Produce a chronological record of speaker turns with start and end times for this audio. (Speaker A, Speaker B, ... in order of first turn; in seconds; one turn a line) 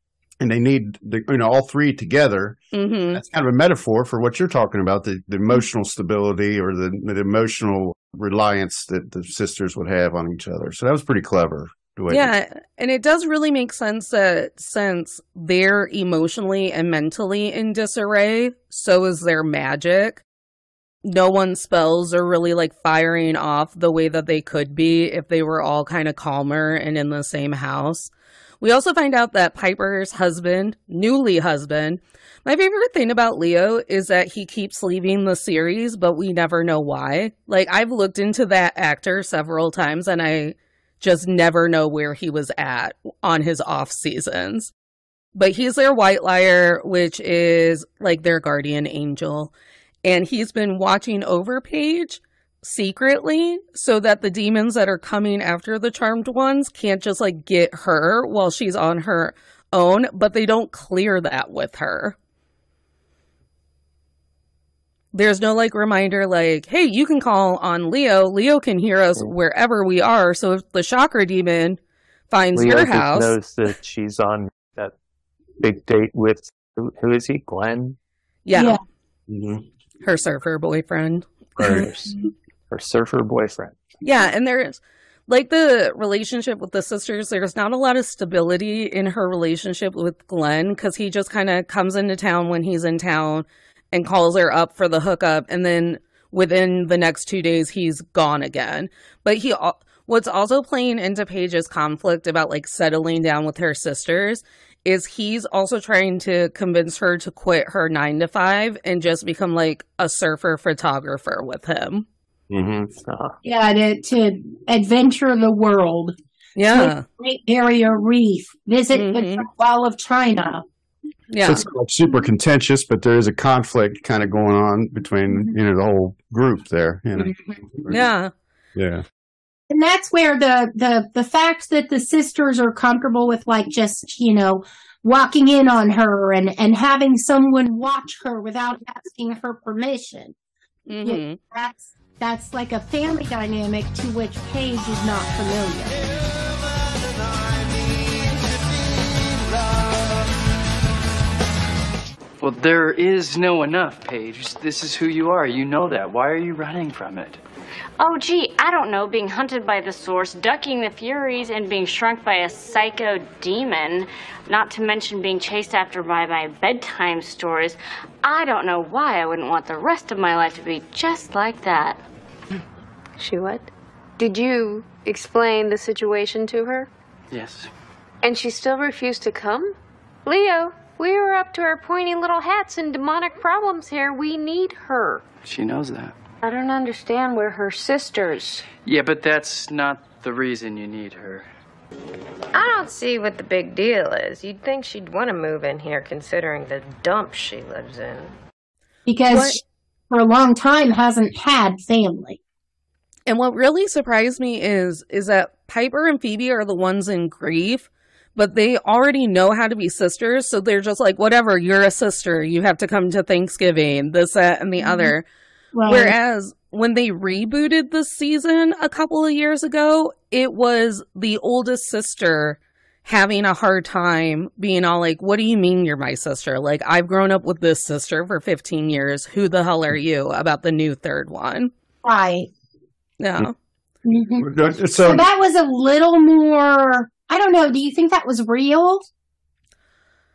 Speaker A: 0.4-2.6
Speaker B: 2.7-3.2
Speaker A: 3.1-12.3
Speaker B: 12.1-20.2
Speaker B: 21.0-44.7
Speaker B: 45.3-49.5
Speaker B: 50.0-62.1
Speaker B: 65.1-71.8
Speaker B: 72.3-73.3
Speaker C: 72.5-74.9
Speaker C: 75.6-78.0
Speaker B: 78.5-78.8
Speaker D: 78.5-78.8
Speaker A: 79.3-79.6
Speaker B: 80.0-81.8
Speaker A: 81.6-81.9
Speaker C: 81.6-82.1
Speaker C: 82.7-83.8
Speaker B: 84.0-112.0
Speaker A: 112.5-112.9
Speaker C: 113.0-113.3
Speaker D: 113.4-116.1
Speaker B: 116.5-117.0
Speaker D: 116.7-120.6
Speaker B: 118.9-119.5
Speaker B: 121.3-121.6
Speaker A: 121.4-128.0
Speaker B: 127.9-128.3
Speaker A: 128.7-129.0
Speaker D: 129.7-140.3
Speaker B: 140.9-141.4
Speaker D: 141.0-146.0
Speaker E: 152.4-157.4
Speaker F: 158.0-172.0
Speaker G: 173.2-176.9
Speaker E: 177.3-177.7
Speaker G: 178.2-185.2
Speaker E: 185.4-186.2
Speaker G: 186.4-188.7
Speaker E: 188.8-191.5
Speaker H: 192.5-198.3
Speaker D: 199.1-202.4
Speaker B: 199.3-199.6
Speaker B: 203.3-215.2
Speaker D: 214.8-215.1
Speaker D: 215.7-216.2
Speaker B: 215.8-231.7
Speaker D: 232.0-232.5
Speaker B: 233.2-233.5
Speaker D: 234.0-239.0
Speaker A: 234.4-235.3